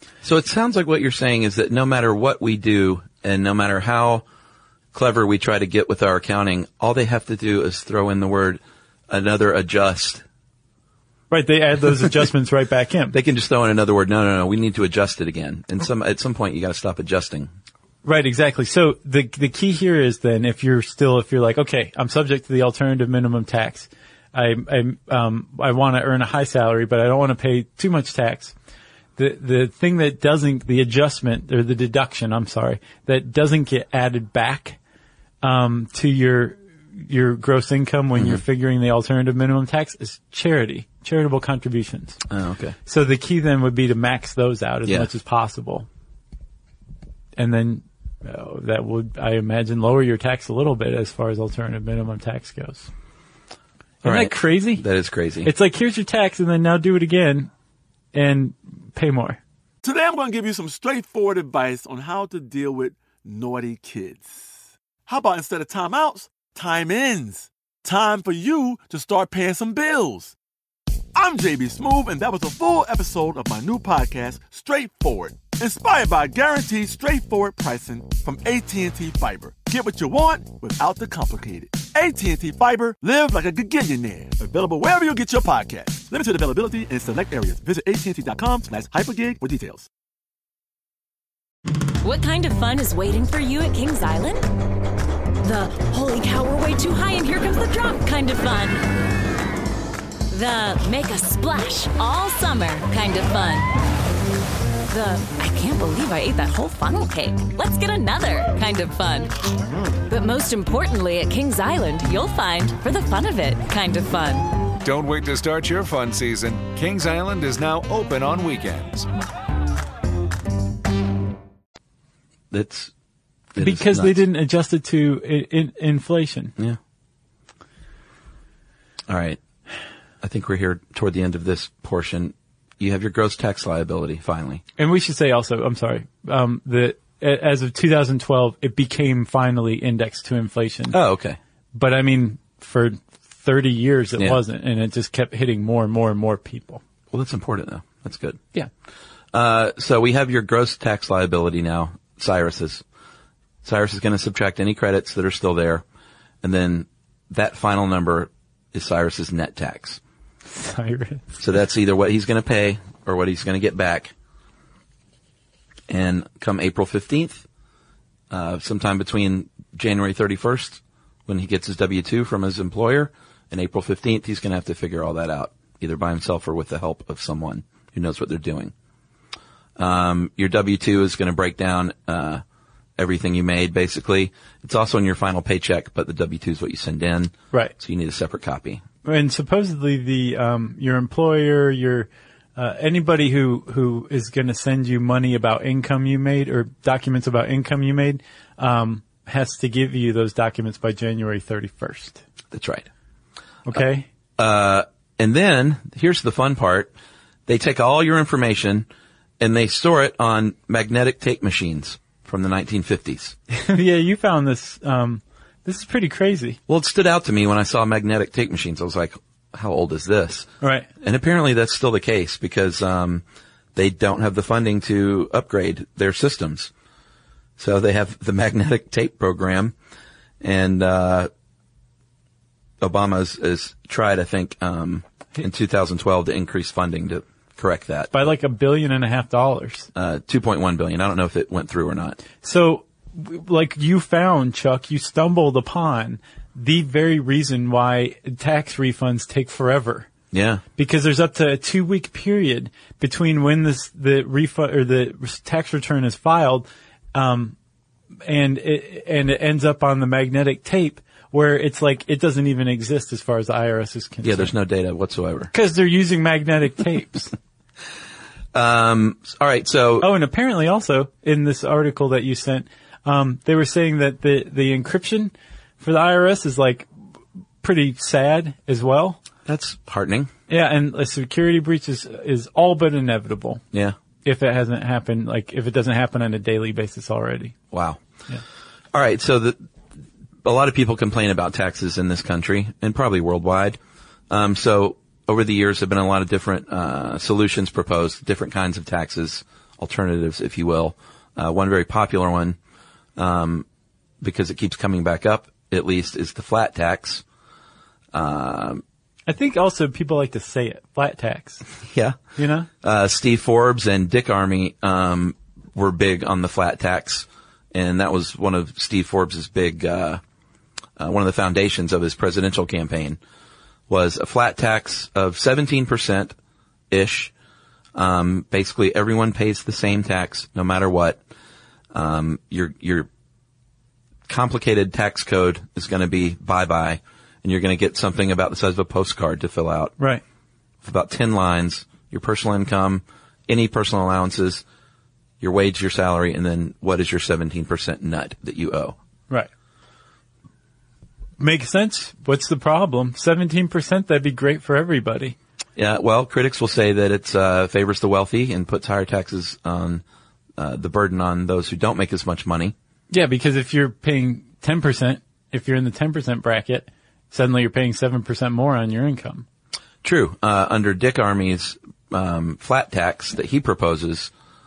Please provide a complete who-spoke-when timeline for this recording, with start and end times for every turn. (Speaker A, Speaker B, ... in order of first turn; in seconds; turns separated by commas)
Speaker A: 0.2-4.2, Speaker A: 4.9-10.2, Speaker B: 11.3-13.2, Speaker A: 13.1-17.5, Speaker B: 18.0-28.5, Speaker B: 29.2-34.8, Speaker B: 35.4-42.2, Speaker A: 42.3-42.8, Speaker B: 42.9-45.9, Speaker B: 47.4-52.9, Speaker B: 54.0-54.8, Speaker A: 54.0-55.5, Speaker B: 55.4-57.5, Speaker B: 58.1-59.4, Speaker C: 59.8-64.5, Speaker C: 65.1-70.3, Speaker C: 71.1-89.9, Speaker D: 92.0-94.4, Speaker D: 95.4-98.8, Speaker D: 100.3-103.7, Speaker D: 104.9-109.4, Speaker D: 110.1-114.5, Speaker E: 114.8-119.1, Speaker A: 122.5-122.9, Speaker A: 123.5-124.2, Speaker B: 123.6-126.5, Speaker A: 129.1-129.4, Speaker A: 130.2-134.6, Speaker B: 134.8-141.0, Speaker A: 140.9-141.4, Speaker B: 141.7-146.8, Speaker A: 147.1-148.4, Speaker A: 149.3-152.8, Speaker A: 153.6-155.8, Speaker A: 156.4-160.0, Speaker B: 160.5-161.2, Speaker A: 161.4-164.1, Speaker A: 165.9-167.4, Speaker A: 168.3-178.7, Speaker A: 179.8-182.4, Speaker A: 183.0-188.8, Speaker B: 189.0-202.2, Speaker A: 202.5-202.9, Speaker B: 203.7-204.1, Speaker A: 204.4-206.9, Speaker A: 207.5-208.9, Speaker A: 209.4-213.4, Speaker B: 213.5-216.6, Speaker A: 216.7-220.5, Speaker B: 220.6-220.9, Speaker A: 221.0-223.2, Speaker A: 223.8-226.7, Speaker A: 227.6-229.7, Speaker A: 230.4-231.3, Speaker A: 232.8-238.1, Speaker B: 238.1-239.9, Speaker A: 240.0-242.2, Speaker B: 242.4-250.1, Speaker A: 250.3-250.6, Speaker B: 250.8-257.6, Speaker B: 258.3-264.5, Speaker A: 264.2-265.5, Speaker B: 265.5-267.3, Speaker A: 268.5-270.1, Speaker B: 270.0-276.9, Speaker B: 277.6-279.2, Speaker A: 279.5-280.3, Speaker B: 280.5-283.6, Speaker B: 284.2-287.6, Speaker A: 287.7-288.0, Speaker A: 288.9-289.6, Speaker A: 290.4-293.8, Speaker A: 294.3-302.6, Speaker A: 303.2-303.6, Speaker A: 304.2-307.2, Speaker A: 308.1-308.8, Speaker B: 309.3-311.6, Speaker A: 311.9-312.2, Speaker B: 312.4-312.7, Speaker A: 312.8-320.2, Speaker A: 321.0-323.2, Speaker A: 323.9-326.3, Speaker A: 326.9-327.3, Speaker A: 327.9-331.2, Speaker A: 331.9-333.1, Speaker A: 334.3-340.0, Speaker A: 340.8-344.6, Speaker A: 345.4-348.9, Speaker B: 351.4-355.4, Speaker A: 355.8-360.0, Speaker A: 360.6-362.7, Speaker B: 363.1-369.4, Speaker A: 370.0-374.3